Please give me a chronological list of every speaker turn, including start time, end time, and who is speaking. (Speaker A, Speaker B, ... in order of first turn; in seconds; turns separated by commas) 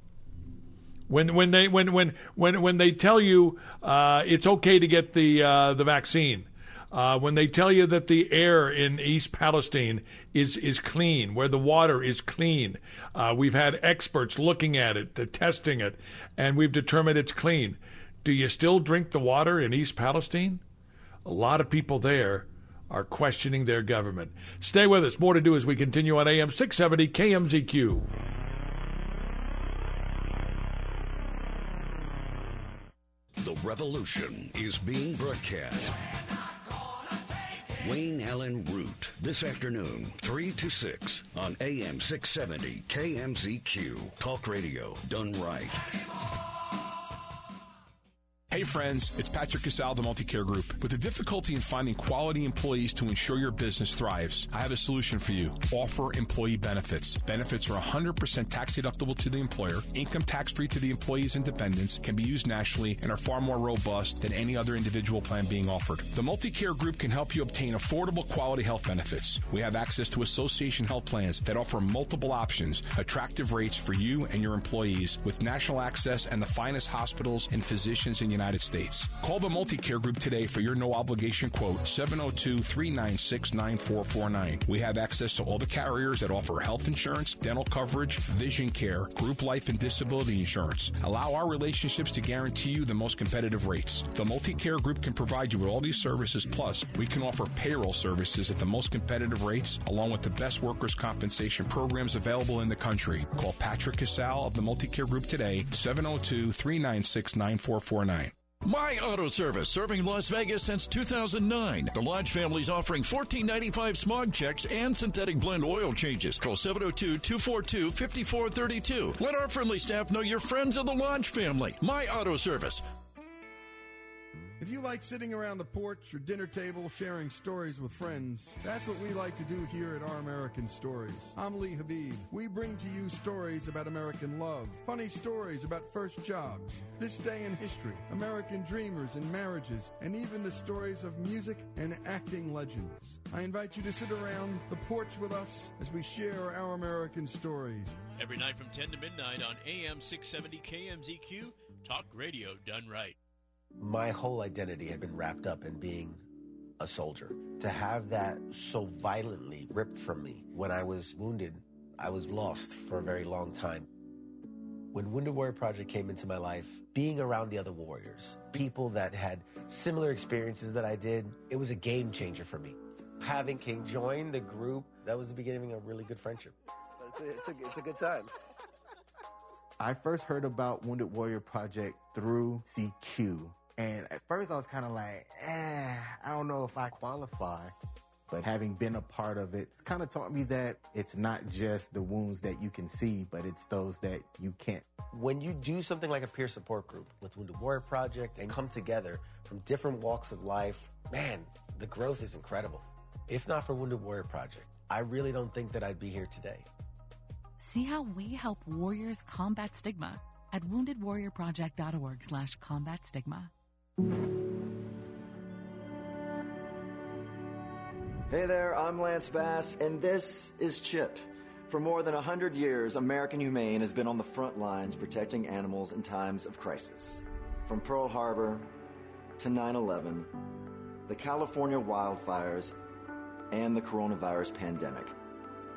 Speaker A: 1.1-20.6, Speaker A: 21.2-28.1, Speaker B: 33.4-36.0, Speaker B: 37.8-45.8, Speaker C: 48.5-108.3, Speaker D: 108.6-122.8, Speaker E: 124.6-148.0, Speaker F: 148.2-153.2, Speaker G: 153.8-156.2, Speaker G: 156.8-163.9, Speaker G: 164.9-176.5, Speaker G: 177.1-178.3, Speaker H: 179.8-187.7, Speaker E: 180.5-183.4, Speaker H: 188.3-194.8, Speaker E: 188.4-194.6, Speaker G: 195.1-206.6, Speaker I: 207.6-213.5, Speaker J: 218.3-228.7, Speaker J: 229.4-230.3, Speaker J: 231.1-232.7, Speaker J: 233.5-235.1